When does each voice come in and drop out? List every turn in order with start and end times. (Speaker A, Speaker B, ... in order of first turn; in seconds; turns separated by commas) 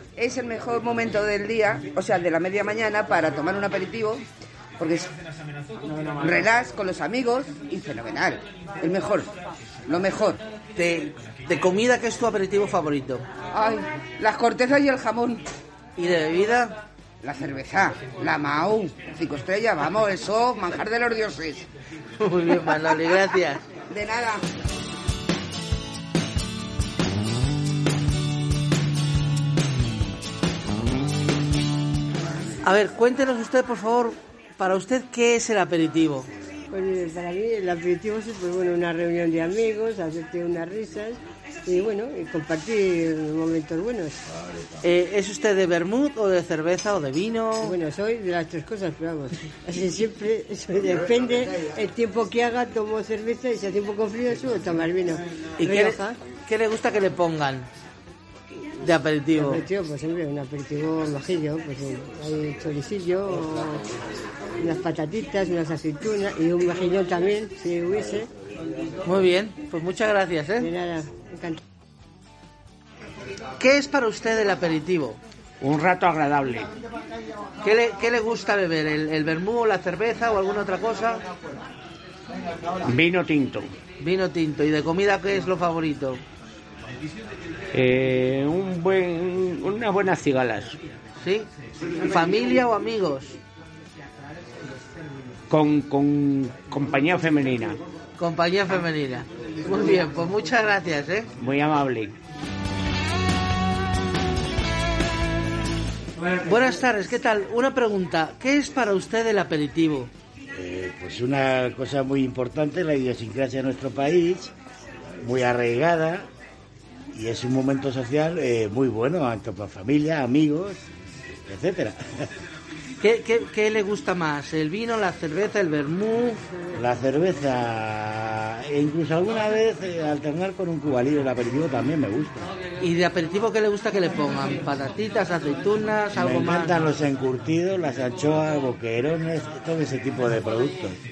Speaker A: 0.2-4.2, Speaker A: 4.8-5.1, Speaker A: 6.2-9.3, Speaker A: 9.8-10.4, Speaker B: 10.7-13.3, Speaker A: 13.5-15.4, Speaker B: 16.0-16.8, Speaker A: 17.2-21.7, Speaker B: 22.2-23.7, Speaker A: 23.8-24.4, Speaker B: 32.6-36.3, Speaker C: 36.7-44.2, Speaker B: 44.8-47.8, Speaker C: 47.6-56.2, Speaker B: 55.6-57.7, Speaker B: 58.8-59.6, Speaker C: 59.4-63.8, Speaker C: 64.6-68.3, Speaker B: 69.0-70.7, Speaker C: 70.6-71.6, Speaker B: 73.6-75.2, Speaker D: 75.6-76.7, Speaker B: 77.6-81.2, Speaker D: 82.8-83.7, Speaker B: 84.0-86.2, Speaker D: 87.7-90.8, Speaker B: 91.2-93.4, Speaker D: 95.5-97.8, Speaker B: 98.2-101.3, Speaker D: 101.4-102.2, Speaker B: 106.4-110.1, Speaker E: 110.5-114.5, Speaker E: 115.2-116.3, Speaker E: 117.1-120.8, Speaker E: 121.5-122.3, Speaker B: 123.0-126.4, Speaker E: 126.8-132.5, Speaker B: 132.8-136.8, Speaker E: 136.1-140.9